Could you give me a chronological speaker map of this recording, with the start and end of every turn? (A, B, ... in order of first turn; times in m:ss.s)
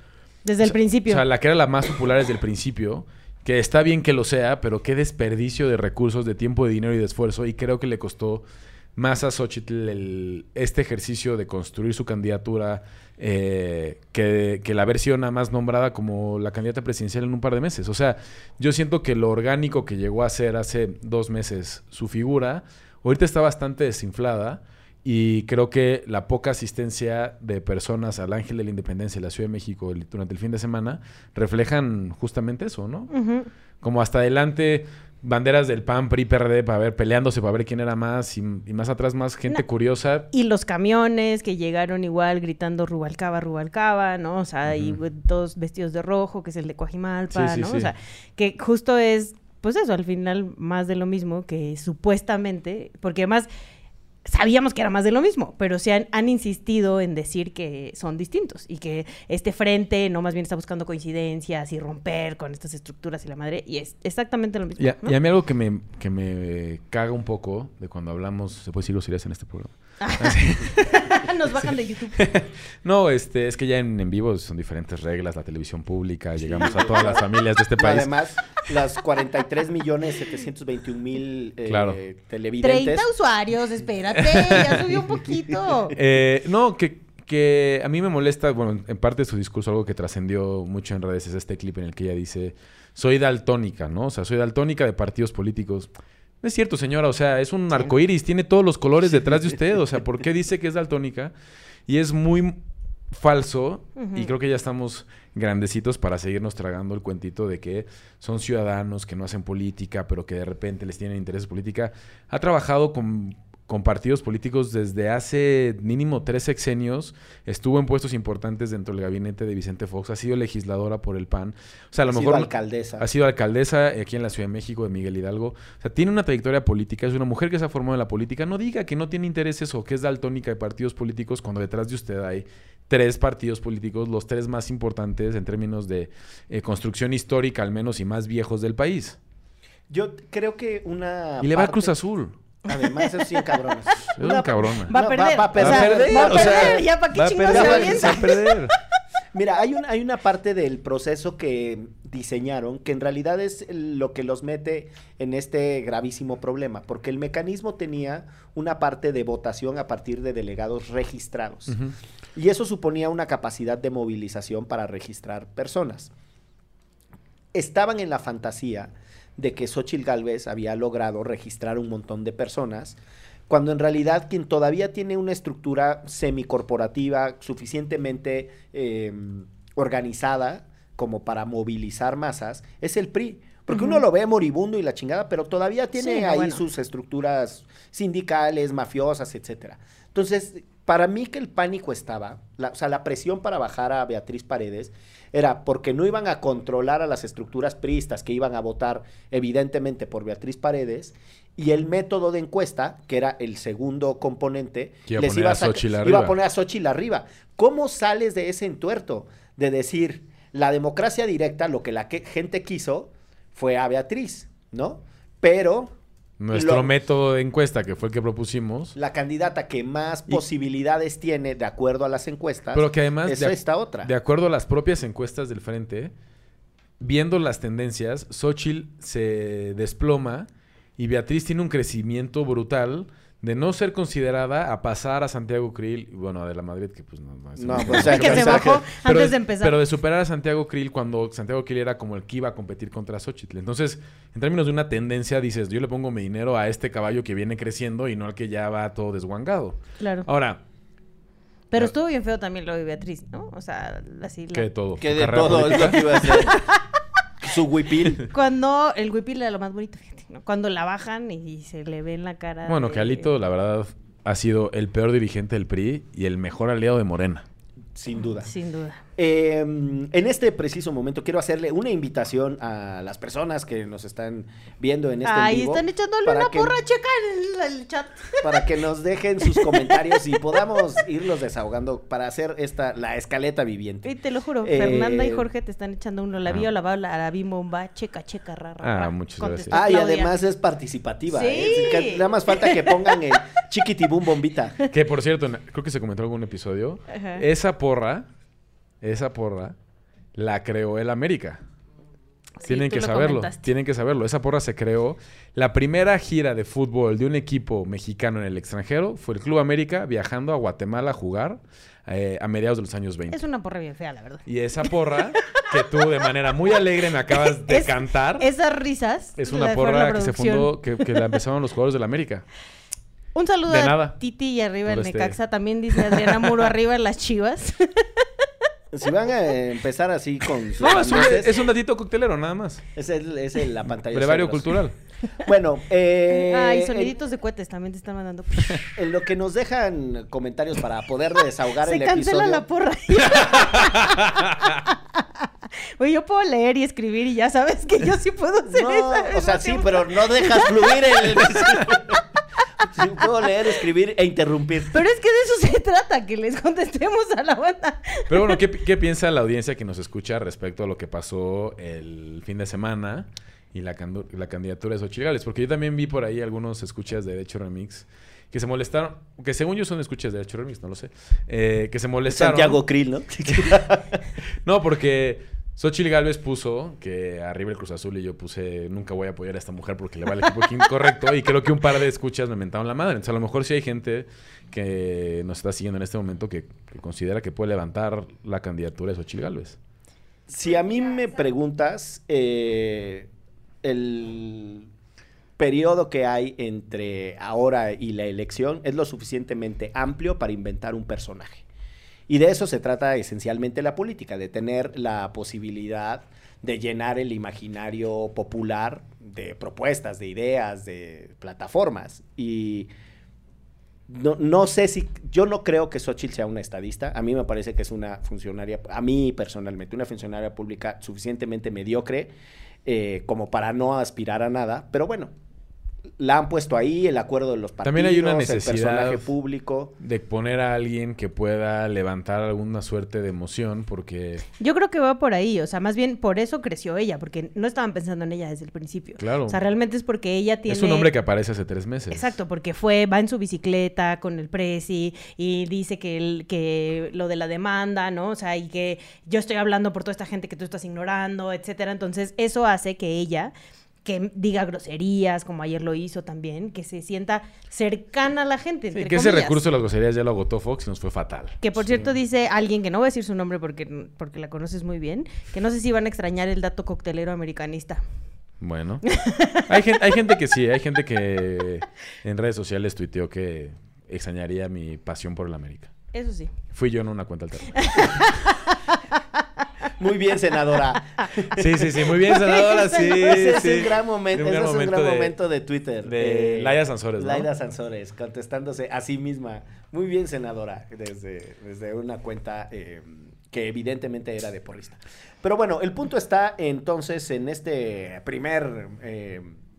0:00.4-0:01.2 A
0:00.6-0:08.4 B
0:09.0-0:33.1 B
0:33.1-0:33.5 A
0:33.8-0:40.3 B
0:40.3-0:53.5 A
0:44.6-0:45.0 B
0:47.3-0:47.9 B
0:54.2-1:05.1 A
1:04.8-1:11.1 B
1:10.0-1:12.2 A
1:12.2-1:18.1 B
1:16.4-1:23.0 C
1:21.6-1:22.0 B
1:22.6-1:25.9 A
1:24.3-1:24.8 B
1:25.9-1:35.9 B
1:36.4-1:41.3 B
1:41.9-2:19.2 B
1:44.0-1:44.3 A
2:02.0-2:03.1 C
2:19.9-2:21.9 C
2:21.4-2:22.3 B
2:22.6-2:26.8 C
2:22.8-2:24.1 A
2:24.2-2:25.0 B
2:24.9-2:28.5 A
2:25.6-2:28.7 B
2:27.5-2:28.4 C
2:29.3-2:41.8 C
2:42.3-2:46.1 C
2:47.5-3:35.9 C
3:03.7-3:04.0 A
3:06.0-3:06.6 A
3:25.1-3:26.3 B
3:36.4-3:39.0 B
3:36.5-3:36.9 C
3:38.9-3:44.1 C
3:42.7-3:46.1 B
3:47.0-4:10.6 B
3:57.6-3:58.8 C
3:57.8-3:59.8 A
4:10.0-4:10.3 A
4:11.7-4:14.7 A
4:14.5-4:16.0 B
4:15.0-4:16.6 C
4:16.2-4:16.6 A
4:17.4-4:18.2 C
4:18.2-4:23.3 A
4:22.6-4:27.4 B
4:27.9-4:28.5 C
4:28.4-4:29.0 A
4:29.2-4:36.8 C
4:35.2-4:38.6 A
4:38.4-4:45.5 C
4:39.5-4:40.4 A
4:44.0-4:50.3 A
4:48.8-4:49.8 B
4:49.7-4:54.8 C
4:51.3-4:53.2 A
4:54.9-4:58.2 B
4:57.1-4:57.4 A
4:59.0-4:59.8 B
5:00.3-5:01.6 B
5:02.6-5:03.6 A
5:02.6-5:13.4 B
5:13.3-5:15.7 A
5:14.4-5:18.5 B
5:17.4-5:21.2 A
5:19.4-5:22.4 B
5:23.3-5:28.3 A
5:23.7-5:24.2 B
5:24.9-5:25.4 B
5:25.9-5:26.5 B
5:28.9-5:31.6 C
5:30.8-5:32.8 B
5:32.9-5:34.8 C
5:34.1-5:34.9 B
5:35.4-5:37.1 C
5:36.3-5:38.8 A
5:38.9-5:42.6 C
5:41.8-5:50.9 A
5:43.4-5:44.4 B
5:48.7-5:52.2 C
5:52.8-5:55.0 C
5:54.9-5:58.6 A
5:58.3-6:12.8 B
6:12.3-6:14.2 C
6:14.6-6:29.8 B
6:30.5-6:33.3 C
6:33.8-6:34.9 C
6:35.6-6:41.6 C
6:42.3-6:52.9 C
6:54.1-7:02.3 C
7:02.8-7:05.3 C
7:06.2-7:09.9 C
7:07.8-7:09.2 B
7:10.0-7:14.4 B
7:14.6-7:21.1 A
7:19.2-7:19.6 B
7:20.7-7:22.3 B
7:22.1-7:33.5 A
7:34.0-7:39.6 A
7:38.9-7:42.1 B
7:41.6-7:48.0 A
7:48.6-7:49.1 B
7:49.1-7:49.6 A
7:49.7-7:55.9 B
7:56.1-7:56.5 A
7:56.7-7:58.4 B
7:57.8-7:59.4 A
8:00.0-8:02.0 C
8:01.5-8:05.3 B
8:02.2-8:03.8 A
8:03.1-8:19.6 C
8:06.0-8:07.5 B